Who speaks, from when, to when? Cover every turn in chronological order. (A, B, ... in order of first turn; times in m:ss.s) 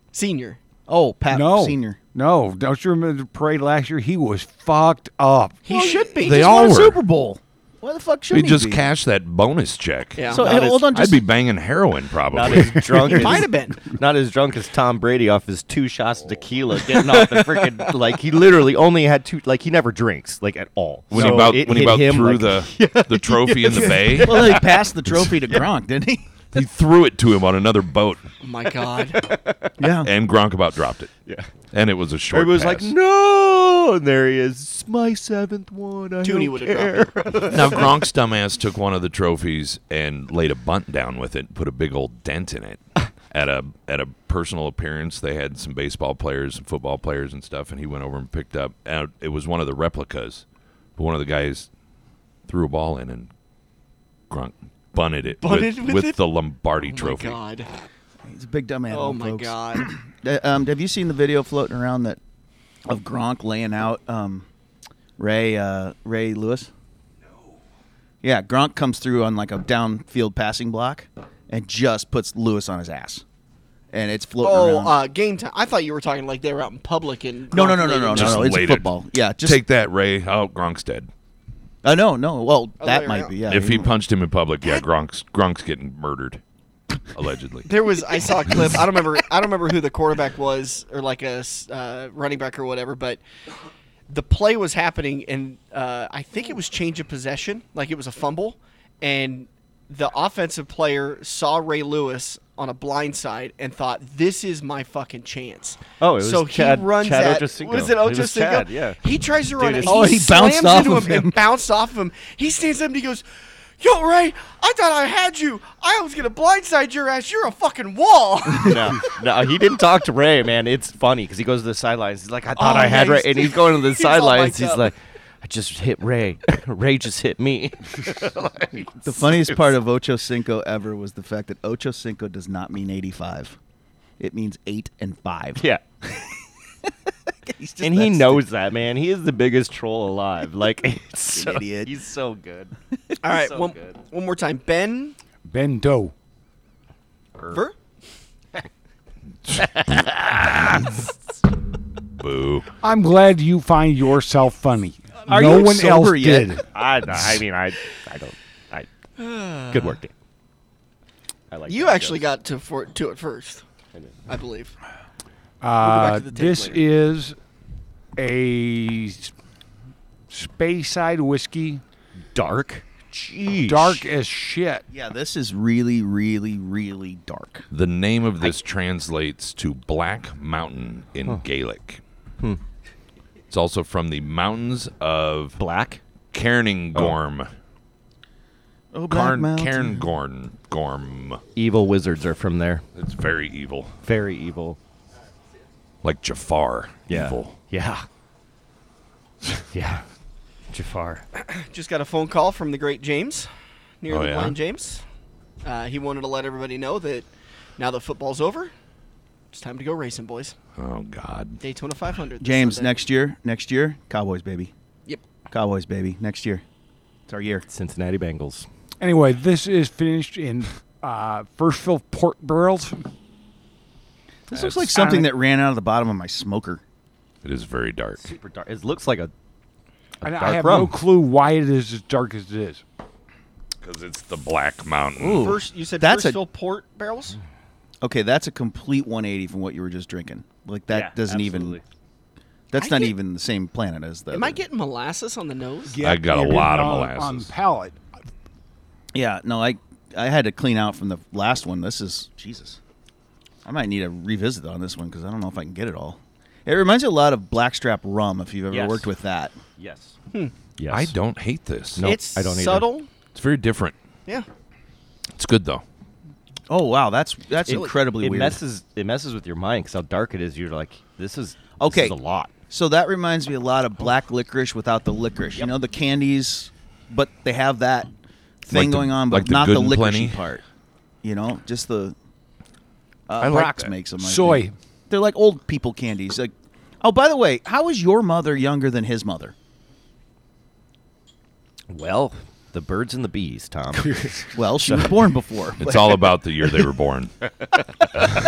0:00.1-0:00.6 A
0:00.9-0:02.0 B
0:01.3-0:05.6 C
0:05.7-0:06.5 A
0:05.7-0:08.9 B
0:06.2-0:07.0 D
0:08.3-0:10.4 D
0:10.2-0:10.5 A
0:10.3-0:10.9 E
0:10.3-0:11.2 B
0:10.9-0:13.2 D
0:12.3-0:25.7 E
0:13.1-0:13.8 A
0:16.9-0:18.0 A
0:21.1-0:24.6 D
0:21.2-0:21.6 B
0:23.7-0:26.2 B
0:26.5-0:28.2 D
0:28.4-0:29.2 A
0:28.7-0:29.8 E
0:29.8-0:30.1 B
0:30.0-0:31.1 D
0:31.3-0:31.5 E
0:31.7-0:33.0 D
0:32.3-0:38.0 E
0:36.2-0:37.8 A
0:37.5-0:50.4 D
0:51.0-0:51.7 D
0:52.5-0:53.3 D
0:54.3-0:57.4 D
0:55.4-0:56.2 A
0:56.8-0:57.7 A
0:58.2-1:02.2 B
0:58.9-0:59.9 A
1:02.9-1:04.5 B
1:05.2-1:06.7 B
1:08.2-1:13.2 B
1:13.9-1:15.0 B
1:14.4-1:18.6 A
1:17.5-1:19.6 B
1:18.1-1:21.1 D
1:21.8-1:23.9 B
1:22.8-1:23.4 A
1:23.5-1:26.4 D
1:27.1-1:27.7 D
1:27.7-1:33.2 A
1:34.1-1:53.2 A
1:46.0-1:49.0 E
1:49.6-1:50.1 E
1:49.8-1:51.4 B
1:53.8-1:59.2 A
1:58.6-2:09.7 E
2:02.6-2:04.9 A
2:02.6-2:03.0 B
2:09.0-2:13.6 B
2:14.2-2:16.3 B
2:15.6-2:15.8 E
2:17.4-2:18.4 B
2:17.8-2:24.0 E
2:21.3-2:21.9 B
2:23.2-2:25.2 A
2:25.5-2:26.1 C
2:27.5-2:27.8 A
2:29.5-2:30.5 E
2:32.2-2:32.7 D
2:32.8-2:36.7 C
2:35.3-2:36.6 B
2:36.7-2:38.9 E
2:39.2-2:40.0 A
2:39.7-2:40.1 E
2:41.5-2:42.3 E
2:41.7-2:43.6 A
2:44.3-2:44.8 A
2:45.6-2:47.4 C
2:45.8-2:46.8 A
2:48.2-2:49.3 C
2:50.3-2:51.8 C
2:52.3-2:54.0 E
2:53.7-2:54.8 C
2:54.9-2:57.7 B
2:57.7-3:02.0 D
3:03.5-3:05.6 D
3:05.6-3:06.0 E
3:06.3-3:07.5 D
3:08.9-3:10.0 B
3:09.1-3:11.4 D
3:11.6-3:12.9 E
3:13.0-3:14.0 D
3:14.0-3:14.8 E
3:16.0-3:17.6 D
3:17.1-3:18.1 E
3:19.7-3:20.0 E
3:20.7-3:21.2 E
3:21.4-3:25.0 A
3:24.1-3:24.6 D
3:25.6-3:28.7 A
3:29.5-3:30.6 A
3:30.8-3:31.6 D
3:31.6-3:33.0 A
3:32.4-3:34.7 B
3:35.5-3:36.6 B
3:37.3-3:37.7 B
3:37.7-3:38.7 E
3:39.0-3:43.1 C
3:44.5-3:46.8 B
3:44.5-3:44.9 D
3:45.0-3:45.3 C
3:47.4-3:48.3 D
3:48.2-3:49.3 E
3:50.2-3:51.0 E
3:50.2-3:52.8 C
3:53.8-3:55.6 D
3:55.2-3:56.4 B
3:55.3-3:57.4 A
3:58.0-4:01.8 B
4:00.9-4:01.8 E
4:02.7-4:04.6 B
4:02.8-4:03.1 A
4:04.3-4:06.0 A
4:05.9-4:08.0 C
4:06.0-4:07.5 D
4:09.1-4:12.8 B
4:13.6-4:19.6 B
4:18.7-4:19.1 E
4:19.8-4:20.2 E
4:20.8-4:21.2 E
4:20.9-4:22.0 D
4:22.0-4:22.9 E
4:22.0-4:23.1 A
4:23.4-4:24.0 D
4:25.4-4:25.8 D
4:26.7-4:28.6 B
4:27.6-4:32.5 E
4:31.8-4:32.2 B
4:32.7-4:38.1 B
4:38.6-4:40.6 B
4:38.7-4:40.4 D
4:41.2-4:42.2 B
4:43.3-4:49.5 B
4:43.4-4:43.9 D
4:44.2-4:44.7 C
4:51.9-4:55.2 E
4:54.0-4:54.3 C
4:54.5-4:56.2 B
4:55.8-4:57.3 D